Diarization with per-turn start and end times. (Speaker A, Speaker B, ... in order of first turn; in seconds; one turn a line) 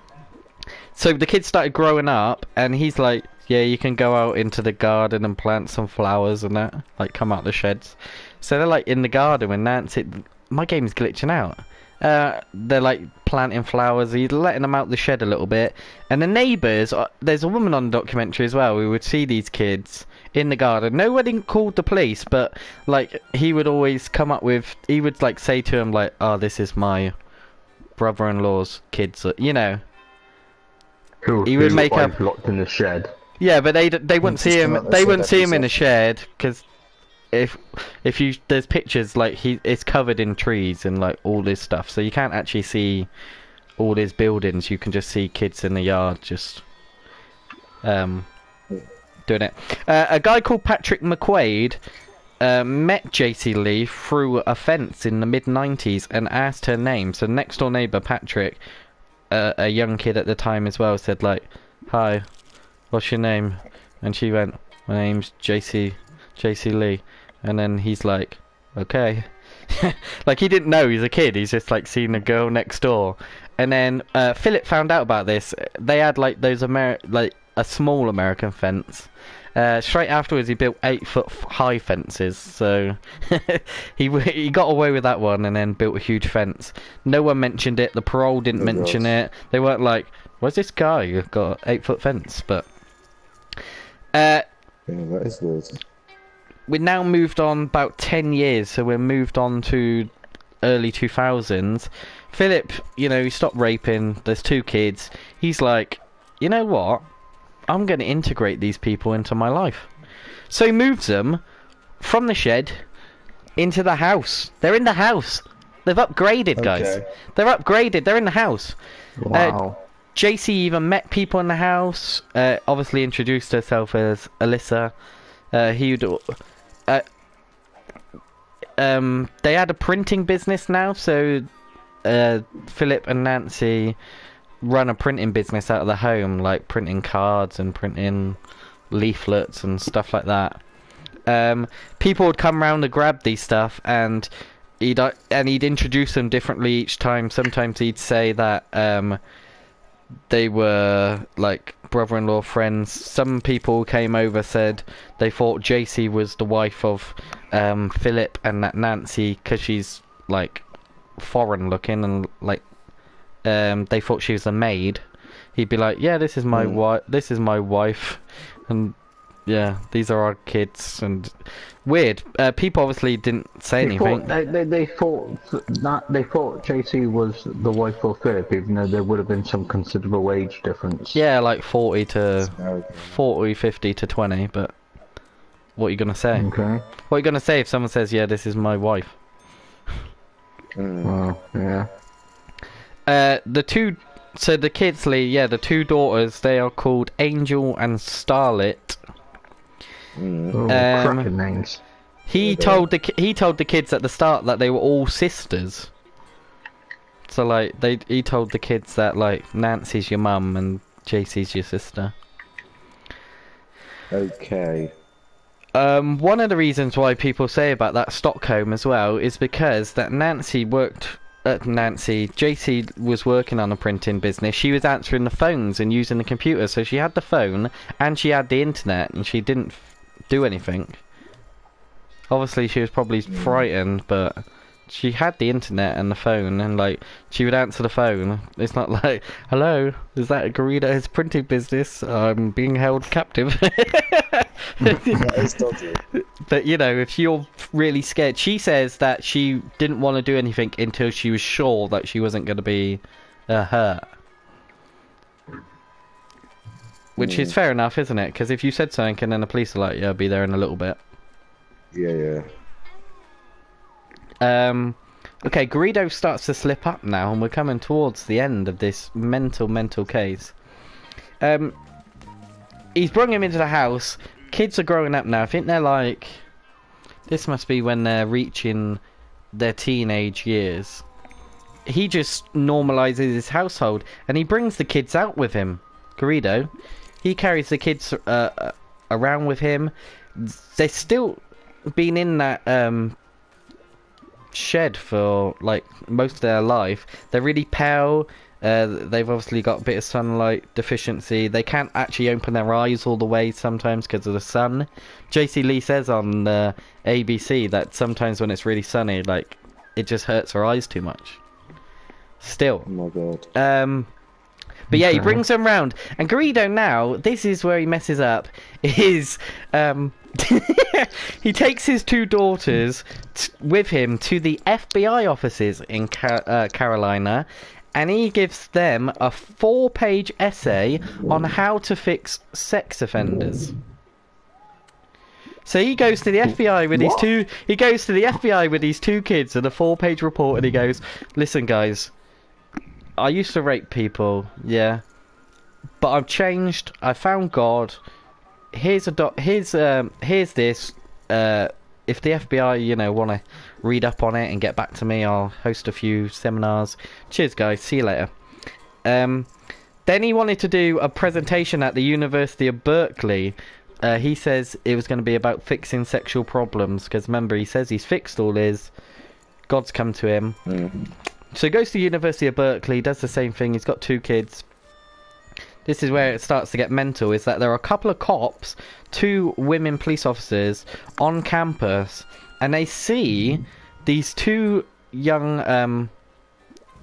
Speaker A: 0.9-27.1
Speaker A: 28.0-29.8
Speaker B: 31.2-33.1
Speaker A: 31.4-32.1
Speaker A: 33.4-36.6
Speaker C: 34.6-35.6
Speaker A: 37.3-43.1
Speaker A: 43.8-46.6
Speaker A: 47.8-48.3
Speaker A: 49.3-51.8
Speaker A: 52.4-58.6
Speaker A: 59.3-62.2
Speaker A: 62.9-92.7
Speaker C: 88.6-89.1
Speaker A: 94.1-94.4
Speaker C: 94.9-95.8
Speaker A: 96.7-100.1
Speaker A: 100.6-107.0
Speaker A: 107.7-109.9
Speaker A: 110.5-111.4
Speaker A: 112.0-112.8
Speaker A: 113.6-118.8
Speaker C: 116.6-117.0
Speaker B: 119.2-119.8
Speaker A: 119.3-119.6
Speaker A: 120.1-124.9
Speaker A: 125.5-127.0
Speaker A: 128.8-131.5
Speaker A: 132.0-134.0
Speaker A: 134.6-138.4
Speaker A: 138.9-140.6
Speaker A: 141.3-149.2
Speaker A: 150.3-160.6
Speaker A: 161.2-162.6
Speaker A: 163.4-165.0
Speaker A: 165.5-174.3
Speaker C: 166.5-166.8
Speaker B: 173.8-181.2
Speaker A: 181.1-184.7
Speaker C: 182.5-183.0
Speaker A: 185.8-186.5
Speaker B: 186.3-186.8
Speaker A: 187.1-189.2
Speaker C: 190.8-191.1
Speaker B: 191.0-191.9
Speaker A: 193.1-199.0
Speaker C: 200.2-200.6
Speaker B: 200.5-201.8
Speaker A: 200.7-201.3
Speaker A: 202.3-205.9
Speaker C: 202.4-202.9
Speaker A: 207.3-212.1
Speaker C: 214.1-214.9
Speaker A: 215.8-231.0
Speaker A: 232.3-245.5
Speaker C: 233.3-233.7
Speaker C: 245.0-246.0
Speaker A: 246.2-254.1
Speaker A: 257.2-261.0
Speaker C: 257.2-257.5
Speaker C: 261.9-262.5
Speaker A: 264.4-270.5
Speaker A: 271.4-271.7
Speaker A: 272.9-276.4
Speaker A: 277.3-279.0
Speaker A: 279.5-281.0
Speaker A: 281.9-286.7
Speaker A: 287.2-291.4
Speaker A: 291.9-293.1
Speaker A: 294.5-311.4
Speaker A: 312.4-312.9
Speaker C: 312.9-313.5
Speaker A: 313.5-314.1
Speaker A: 314.9-333.7
Speaker A: 335.6-342.1
Speaker A: 343.2-345.0
Speaker A: 346.0-348.0
Speaker A: 348.7-358.3
Speaker A: 359.0-359.5
Speaker A: 360.1-368.9
Speaker A: 369.7-370.6
Speaker C: 370.6-371.1
Speaker A: 371.5-374.6
Speaker A: 375.8-386.1